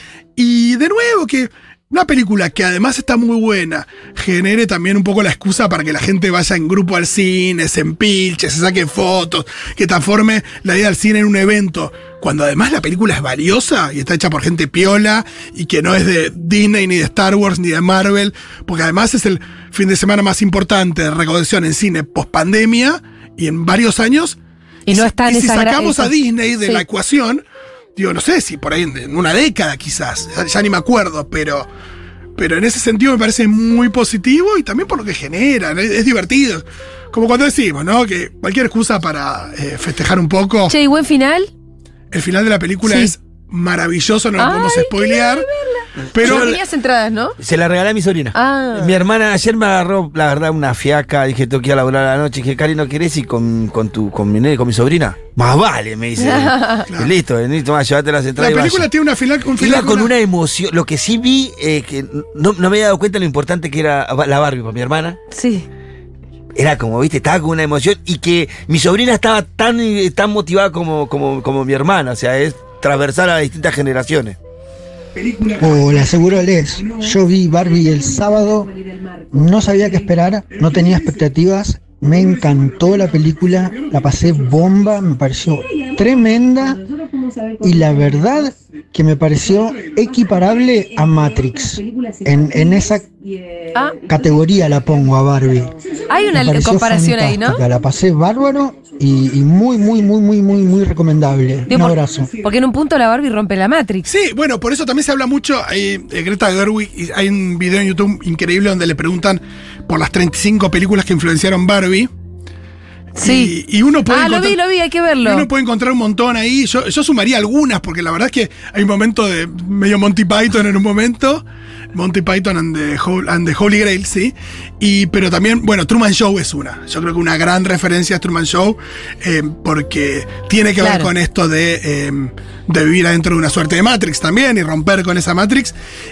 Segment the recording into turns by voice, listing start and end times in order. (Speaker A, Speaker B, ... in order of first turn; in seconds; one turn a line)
Speaker A: 0.4-24.4
Speaker B: 24.9-26.8
Speaker A: 24.9-27.4
Speaker A: 28.0-31.7
Speaker A: 32.4-40.7
Speaker B: 40.7-41.5
Speaker A: 42.1-45.5
Speaker B: 42.8-43.1
Speaker B: 44.4-47.3
Speaker A: 46.1-46.5
Speaker C: 46.2-46.6
Speaker C: 47.4-58.9
Speaker B: 48.3-49.0
Speaker B: 56.2-56.9
Speaker A: 58.4-60.1
Speaker C: 59.6-65.2
Speaker B: 65.3-65.7
Speaker C: 66.5-74.4
Speaker D: 75.6-78.7
Speaker D: 79.3-86.8
Speaker D: 87.6-93.1
Speaker D: 94.0-95.7
Speaker B: 96.1-97.6
Speaker D: 96.3-102.3
Speaker B: 101.7-104.0
Speaker A: 104.0-112.1
Speaker A: 113.2-114.6
Speaker B: 113.2-113.5
Speaker B: 114.1-115.5
Speaker A: 115.2-135.7
Speaker B: 130.8-131.1